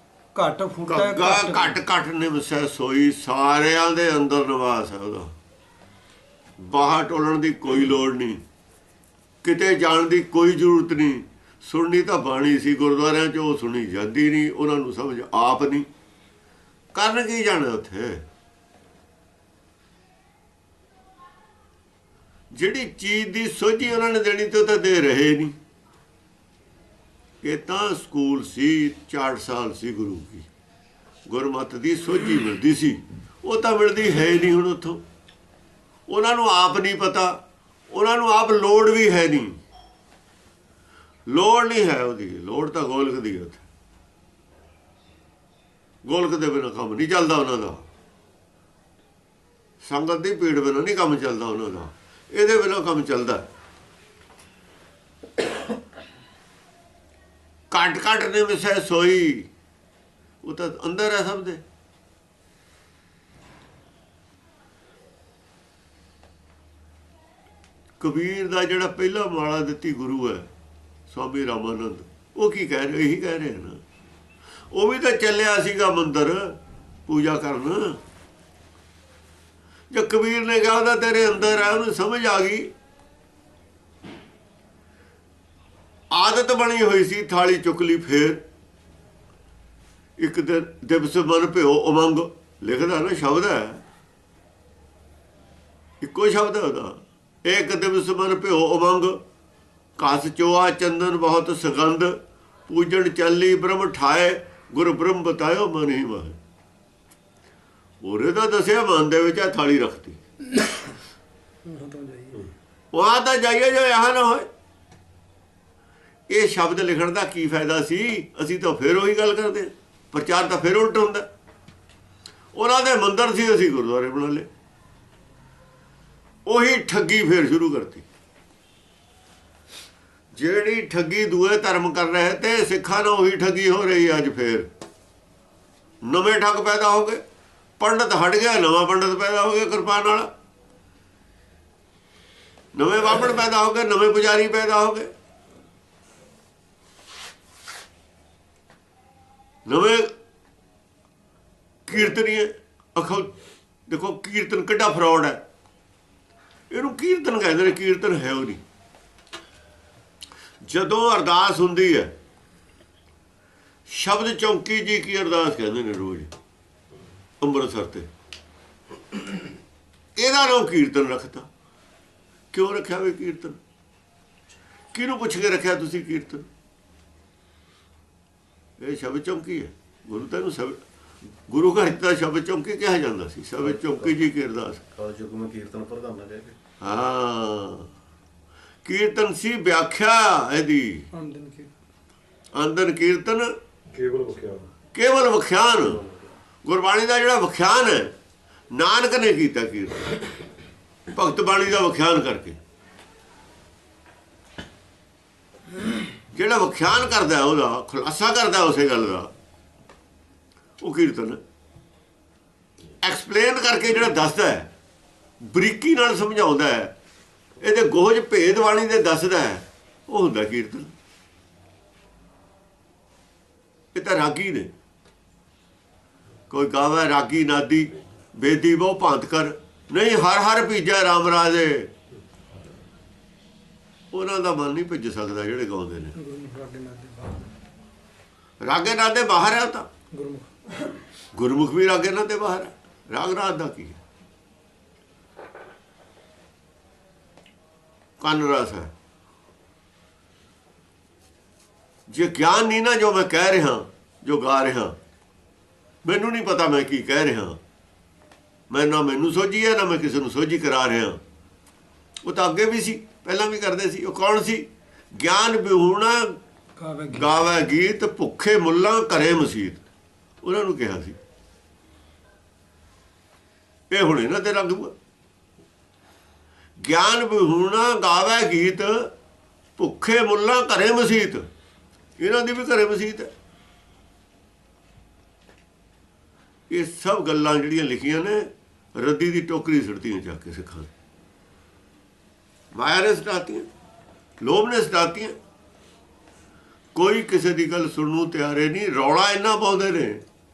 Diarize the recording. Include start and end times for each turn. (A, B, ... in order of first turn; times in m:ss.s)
0:00.3-0:01.8 A
0:00.9-0:05.3 B
0:06.6-0:08.4 B
0:09.4-0:15.9 B
0:16.9-0:18.2 B
0:22.5-0:25.6 B
0:27.4-0:30.5 B
0:31.3-0:35.0 B
0:36.1-0:37.4 B
0:37.9-0:39.6 B
0:41.3-0:43.6 B
0:46.0-0:47.8 B
0:49.8-0:53.4 B
0:57.7-0:59.5 B
1:00.4-1:01.6 B
1:08.0-1:10.5 B
1:11.1-1:13.8 B
1:14.7-1:18.0 B
1:19.9-1:22.7 B
1:26.1-1:28.4 B
1:30.2-1:33.8 B
1:36.0-1:39.2 B
1:40.0-1:46.4 B
1:48.0-1:50.2 B
1:51.6-1:52.5 A
1:52.9-1:54.5 B
1:56.3-2:01.3 B
2:02.5-2:04.5 B
2:06.4-2:08.0 B
2:10.3-2:14.7 B
2:16.0-2:17.2 B
2:17.8-2:20.3 B
2:22.7-2:25.1 B
2:29.6-2:30.1 B
2:31.9-2:33.3 B
2:33.9-2:35.4 B
2:36.7-2:38.6 B
2:40.6-2:42.1 B
2:43.9-2:46.3 B
2:47.4-2:48.1 B
2:50.2-2:51.5 B
2:52.5-2:53.6 B
2:54.9-2:56.5 B
2:58.8-3:00.8 B
3:01.4-3:04.8 B
3:03.6-3:04.1 C
3:04.9-3:06.6 C
3:06.8-3:07.9 B
3:08.8-3:11.0 B
3:11.1-3:11.7 A
3:12.5-3:13.5 B
3:13.9-3:14.7 C
3:14.9-3:16.0 B
3:16.6-3:18.1 B
3:18.7-3:20.1 B
3:21.1-3:22.6 B
3:26.3-3:29.3 B
3:30.8-3:31.4 B
3:33.0-3:34.7 B
3:35.4-3:36.9 B
3:37.6-3:40.9 B
3:43.9-3:44.7 B
3:46.5-3:51.9 B
3:54.1-3:56.1 B
3:56.2-3:57.5 A
3:58.6-3:59.9 B
4:00.1-4:00.9 A
4:01.3-4:04.0 B
4:08.2-4:08.9 B
4:12.1-4:15.0 B
4:16.0-4:17.6 B
4:18.7-4:21.2 B
4:22.2-4:26.4 B
4:26.8-4:27.3 A
4:27.1-4:29.8 B
4:30.4-4:31.2 B
4:33.9-4:34.9 B
4:36.8-4:39.1 B
4:39.8-4:41.4 B
4:42.2-4:43.3 B
4:46.7-4:50.9 B
4:52.7-4:53.7 B
4:54.4-4:55.3 B
4:56.9-5:00.2 B